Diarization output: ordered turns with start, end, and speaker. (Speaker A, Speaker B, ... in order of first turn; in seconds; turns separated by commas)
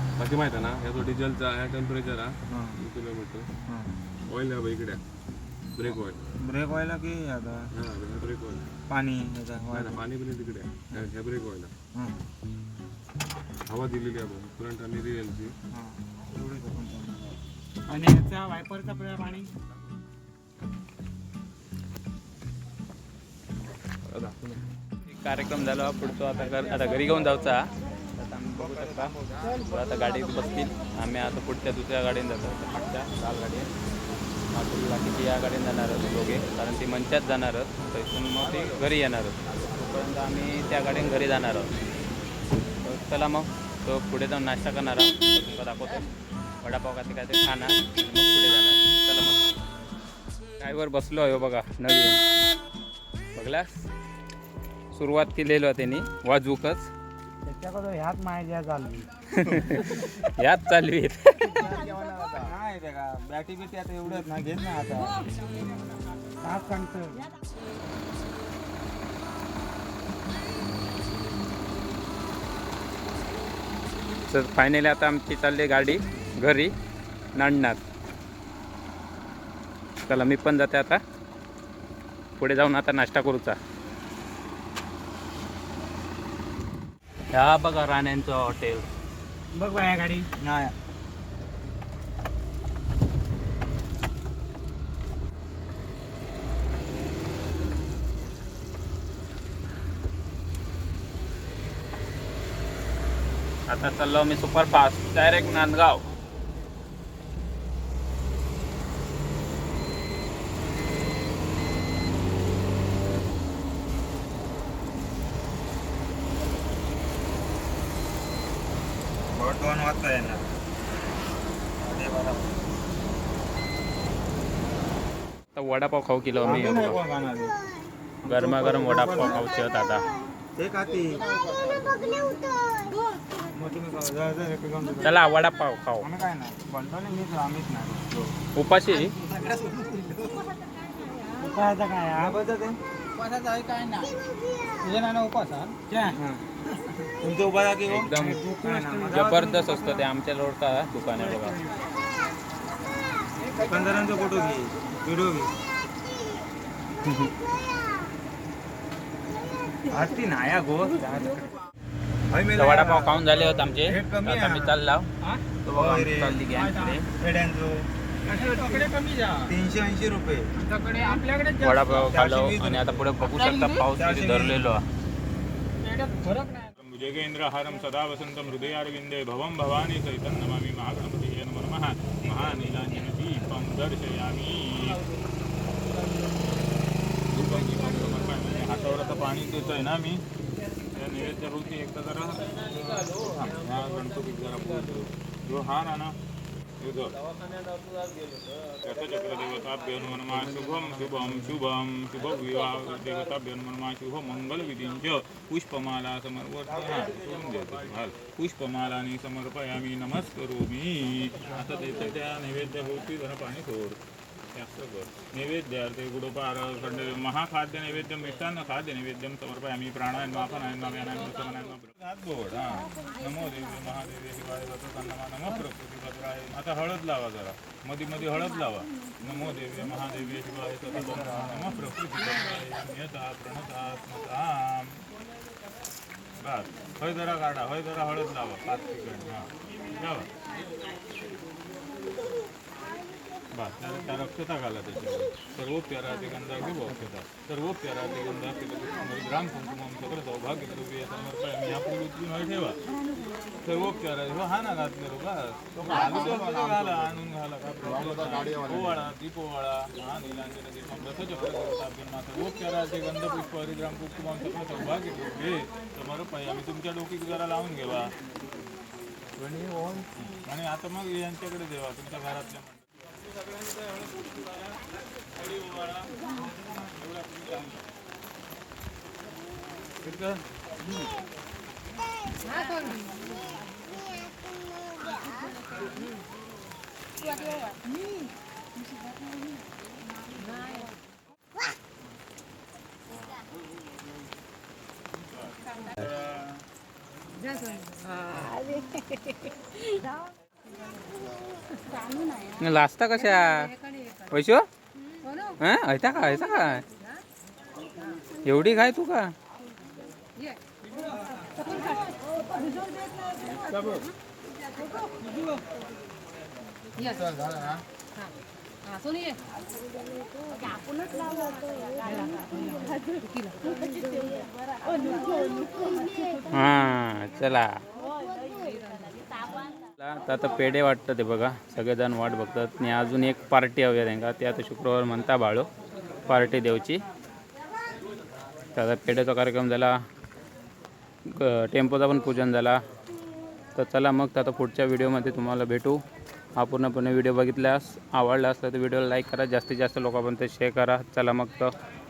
Speaker A: 0.2-3.5, Speaker B: 2.5-2.8, Speaker B: 3.7-3.9, Speaker A: 4.3-5.0, Speaker A: 5.8-6.2, Speaker B: 6.4-7.6, Speaker A: 7.8-8.7, Speaker B: 8.9-10.0, Speaker A: 9.7-11.7, Speaker A: 13.7-15.5, Speaker B: 15.7-19.5, Speaker C: 18.1-19.1, Speaker A: 24.1-24.6, Speaker D: 25.1-33.7, Speaker B: 29.1-29.4, Speaker D: 34.5-41.7, Speaker D: 42.8-46.1, Speaker D: 46.6-49.5, Speaker D: 50.6-52.2, Speaker D: 53.4-53.9, Speaker D: 54.9-56.9, Speaker B: 57.5-59.1, Speaker C: 57.8-58.4, Speaker D: 59.3-61.7, Speaker B: 61.7-65.2, Speaker B: 66.4-67.2, Speaker D: 74.3-76.7, Speaker D: 77.3-77.8, Speaker D: 80.0-81.0, Speaker D: 82.4-83.6, Speaker D: 87.3-88.9, Speaker C: 89.5-90.3, Speaker B: 90.4-90.7, Speaker D: 103.7-106.0, Speaker B: 119.3-120.5, Speaker B: 121.8-122.6, Speaker D: 125.5-127.0, Speaker B: 126.4-127.6, Speaker B: 128.2-129.5, Speaker D: 128.2-130.1, Speaker B: 130.6-131.3, Speaker B: 133.5-135.2, Speaker D: 135.0-136.1, Speaker B: 136.0-138.3, Speaker D: 138.6-139.1, Speaker C: 139.2-140.5, Speaker C: 141.4-142.2, Speaker B: 142.1-142.8, Speaker C: 143.1-144.1, Speaker C: 144.8-146.2, Speaker B: 146.1-146.4, Speaker B: 147.1-150.1, Speaker D: 147.9-151.6, Speaker B: 153.5-155.5, Speaker D: 157.0-157.3, Speaker B: 159.9-161.1, Speaker B: 162.3-164.7, Speaker D: 162.6-165.1, Speaker D: 165.6-167.0, Speaker B: 165.7-166.5, Speaker C: 166.6-167.0, Speaker B: 167.1-168.8, Speaker C: 168.3-169.5, Speaker B: 169.4-170.5, Speaker C: 170.6-171.8, Speaker D: 171.6-174.8, Speaker B: 171.8-173.2, Speaker B: 173.7-174.6, Speaker C: 175.8-176.7, Speaker E: 176.8-185.0, Speaker E: 187.3-190.2, Speaker E: 190.9-196.2, Speaker E: 196.8-197.2, Speaker E: 198.8-214.0, Speaker E: 214.5-235.0, Speaker B: 231.0-231.5, Speaker E: 236.4-240.3, Speaker E: 243.5-252.8, Speaker E: 253.5-268.1, Speaker B: 255.8-256.8, Speaker A: 258.2-258.8, Speaker E: 270.2-272.8, Speaker E: 273.7-274.4, Speaker E: 275.2-277.8, Speaker E: 280.0-280.4, Speaker E: 295.6-296.6, Speaker D: 302.6-303.7, Speaker D: 304.3-304.7, Speaker D: 305.6-306.8, Speaker D: 308.4-309.3, Speaker C: 321.2-321.6, Speaker C: 322.9-324.5, Speaker C: 325.0-326.1, Speaker D: 326.5-327.8, Speaker D: 329.7-335.7, Speaker D: 336.3-337.0, Speaker D: 338.7-340.0, Speaker D: 341.3-342.8, Speaker D: 343.7-346.0, Speaker D: 346.6-351.7